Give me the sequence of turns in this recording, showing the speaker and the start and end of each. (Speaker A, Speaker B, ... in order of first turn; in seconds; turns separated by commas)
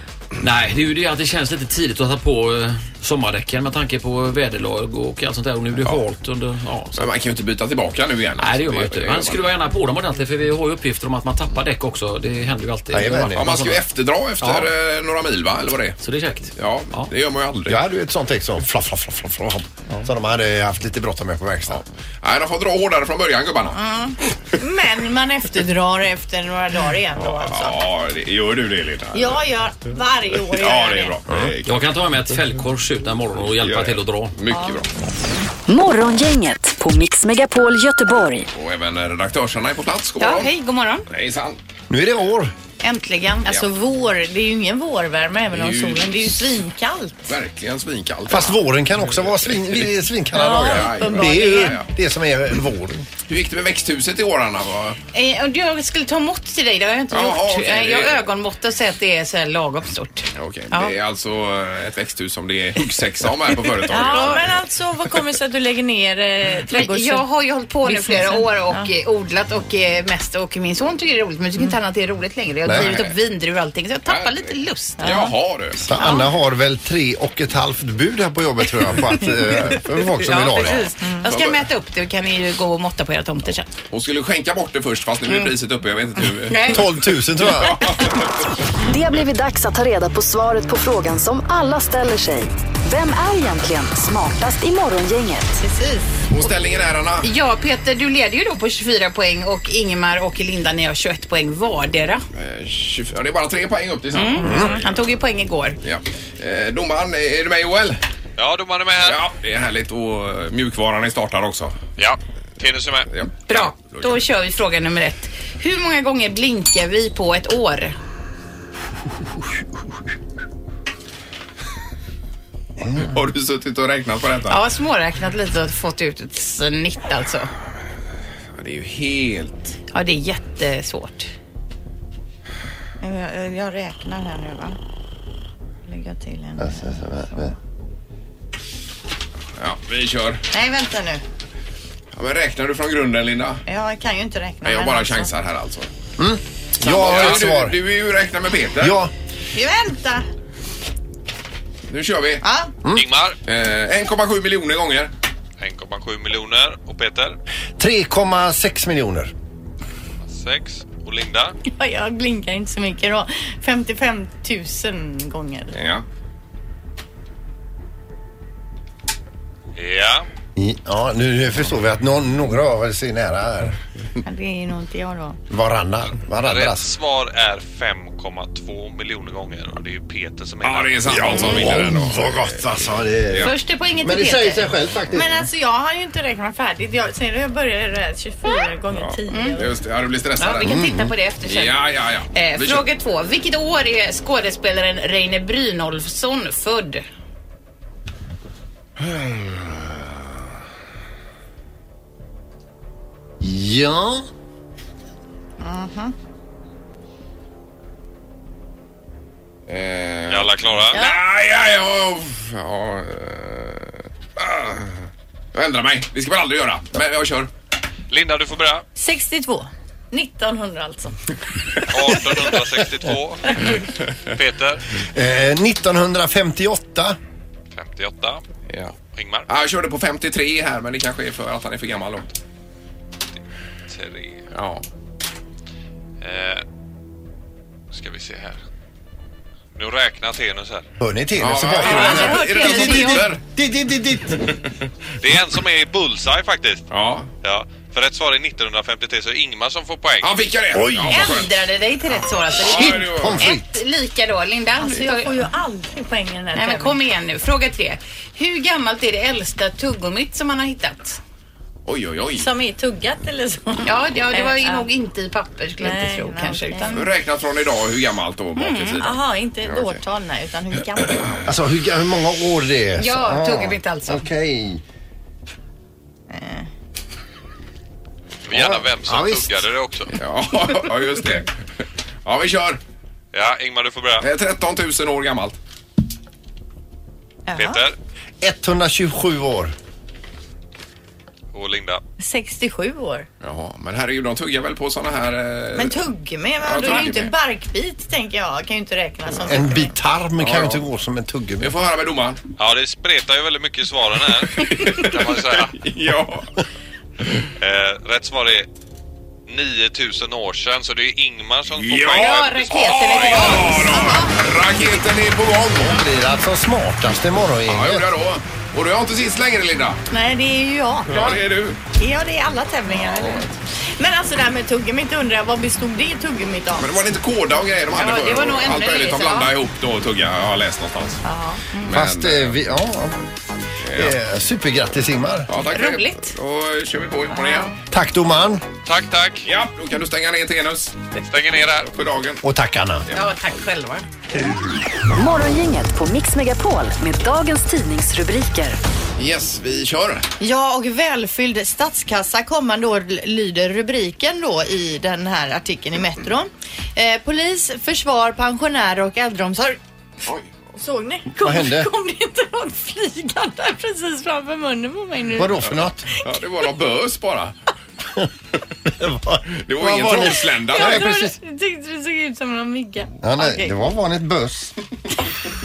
Speaker A: 0.4-7.1, Speaker B: 5.8-6.0, Speaker B: 6.9-9.5, Speaker A: 8.4-13.8, Speaker C: 12.9-13.5, Speaker B: 13.3-16.0, Speaker A: 14.4-14.7, Speaker A: 16.0-17.1, Speaker B: 16.6-17.8, Speaker C: 17.7-21.8, Speaker B: 21.7-23.8, Speaker D: 23.8-27.8, Speaker B: 27.1-29.4, Speaker D: 29.1-31.1, Speaker B: 30.5-31.9, Speaker A: 31.6-34.4, Speaker B: 33.6-34.9, Speaker D: 34.5-34.8, Speaker E: 35.7-38.5, Speaker B: 38.5-40.5, Speaker D: 40.2-41.0, Speaker B: 41.1-41.6, Speaker C: 41.9-42.5, Speaker D: 42.8-47.2, Speaker B: 45.5-46.2, Speaker B: 47.2-48.6, Speaker C: 48.3-53.1, Speaker D: 50.3-51.8, Speaker B: 50.6-51.9, Speaker B: 53.3-55.0, Speaker F: 55.1-60.9, Speaker B: 57.1-58.2, Speaker B: 60.3-64.6, Speaker D: 63.9-67.2, Speaker F: 64.0-64.3, Speaker F: 66.7-75.1, Speaker D: 67.8-68.9, Speaker C: 72.6-73.0, Speaker B: 72.7-73.2, Speaker B: 74.1-75.9, Speaker D: 75.0-75.3, Speaker C: 75.8-80.9, Speaker D: 75.9-76.2, Speaker F: 80.1-83.7, Speaker B: 80.5-81.6, Speaker D: 81.0-81.3, Speaker B: 83.9-86.9, Speaker F: 86.5-86.8, Speaker C: 86.7-87.9, Speaker B: 87.5-88.2, Speaker E: 88.8-95.6, Speaker D: 95.6-96.2, Speaker B: 96.3-97.3, Speaker F: 97.2-102.2, Speaker B: 102.3-105.0, Speaker F: 104.1-105.8, Speaker C: 104.4-104.7, Speaker B: 105.8-108.0, Speaker G: 108.4-109.2, Speaker B: 109.0-111.7, Speaker G: 112.0-113.1, Speaker B: 113.1-114.2, Speaker F: 113.5-118.0, Speaker B: 122.9-124.6, Speaker F: 124.5-127.5, Speaker B: 128.6-129.7, Speaker F: 129.9-131.3, Speaker D: 133.0-134.8, Speaker D: 135.8-137.5, Speaker C: 136.6-137.5, Speaker B: 139.6-140.4, Speaker D: 140.5-141.2, Speaker B: 142.1-143.6, Speaker D: 143.7-145.3, Speaker B: 144.6-145.9, Speaker C: 146.2-147.7, Speaker B: 146.8-149.0, Speaker C: 148.8-149.1, Speaker D: 149.5-150.3, Speaker B: 151.9-152.4, Speaker D: 152.4-152.7, Speaker G: 152.9-153.4, Speaker B: 153.4-155.1, Speaker G: 155.6-157.4, Speaker C: 157.8-159.3, Speaker G: 160.3-161.5, Speaker D: 161.7-165.7, Speaker B: 165.7-166.0, Speaker G: 169.7-170.3, Speaker C: 170.6-173.8, Speaker D: 174.2-175.4, Speaker C: 175.5-176.9, Speaker G: 176.4-181.4, Speaker B: 180.6-183.5, Speaker C: 181.1-185.5, Speaker D: 181.3-181.8, Speaker D: 183.4-189.7, Speaker B: 188.9-190.7, Speaker F: 189.3-189.7, Speaker F: 190.4-191.8, Speaker C: 190.6-191.1, Speaker B: 191.4-192.9, Speaker F: 192.3-197.0, Speaker C: 199.1-199.6, Speaker C: 203.4-204.3, Speaker D: 205.6-206.1, Speaker B: 209.7-217.5, Speaker G: 210.3-211.0, Speaker G: 218.1-218.8, Speaker D: 218.9-221.2, Speaker G: 221.9-223.8, Speaker G: 224.3-224.8, Speaker C: 225.1-227.2, Speaker G: 227.7-228.4, Speaker B: 228.7-228.9, Speaker G: 229.1-229.4, Speaker B: 229.5-232.3, Speaker G: 233.9-234.4, Speaker B: 234.5-234.8, Speaker G: 236.2-236.6, Speaker G: 237.9-238.6, Speaker G: 239.8-240.8, Speaker C: 241.0-244.5, Speaker B: 241.4-243.4, Speaker D: 241.8-243.2, Speaker G: 245.2-246.8, Speaker B: 246.9-247.3, Speaker G: 247.4-250.3, Speaker B: 250.2-251.5, Speaker C: 250.7-251.3, Speaker F: 251.1-255.5, Speaker B: 252.5-253.5, Speaker C: 252.6-253.7, Speaker D: 254.8-256.9, Speaker F: 256.5-261.2, Speaker B: 261.8-262.5, Speaker D: 262.4-264.9, Speaker F: 263.8-267.0, Speaker D: 265.8-267.1, Speaker B: 266.9-270.0, Speaker D: 268.6-271.5, Speaker C: 271.4-274.8, Speaker F: 273.0-274.3, Speaker D: 276.3-276.7, Speaker G: 278.5-280.2, Speaker C: 278.5-279.6, Speaker B: 280.2-281.5, Speaker B: 282.2-282.8, Speaker G: 283.3-284.3, Speaker B: 284.2-285.6, Speaker D: 287.5-287.8, Speaker G: 287.6-287.9, Speaker C: 288.4-289.7, Speaker G: 291.5-292.0, Speaker D: 292.2-293.3, Speaker B: 293.4-296.0, Speaker D: 295.7-299.9, Speaker B: 296.6-297.3, Speaker C: 299.3-301.7, Speaker B: 300.4-300.8, Speaker B: 301.6-302.4, Speaker G: 302.6-305.7, Speaker B: 304.6-306.5, Speaker G: 307.6-308.7, Speaker G: 309.5-312.8, Speaker B: 311.8-316.0, Speaker D: 312.3-315.0, Speaker F: 312.6-313.7, Speaker C: 315.8-318.0, Speaker B: 317.7-320.0, Speaker D: 320.1-321.4, Speaker B: 321.1-321.8, Speaker D: 321.9-327.1, Speaker B: 322.9-323.5, Speaker B: 326.8-331.2, Speaker D: 327.9-329.5, Speaker D: 331.2-331.9, Speaker B: 331.8-332.6, Speaker C: 331.9-333.3, Speaker B: 333.9-334.2, Speaker C: 333.9-335.5, Speaker B: 335.5-337.7, Speaker F: 335.7-336.2, Speaker D: 335.7-336.0, Speaker D: 337.3-337.8, Speaker C: 337.9-338.6, Speaker G: 338.8-339.5, Speaker B: 339.4-340.9, Speaker G: 341.3-341.9, Speaker B: 341.9-342.4, Speaker C: 342.4-343.1, Speaker F: 343.1-344.0, Speaker E: 345.1-348.8, Speaker B: 349.2-350.2, Speaker D: 350.4-359.8, Speaker D: 360.7-365.7, Speaker C: 361.4-361.9, Speaker C: 365.4-366.0, Speaker B: 365.7-367.5, Speaker C: 368.9-371.3, Speaker B: 369.6-371.1, Speaker D: 370.7-373.7, Speaker C: 373.2-374.8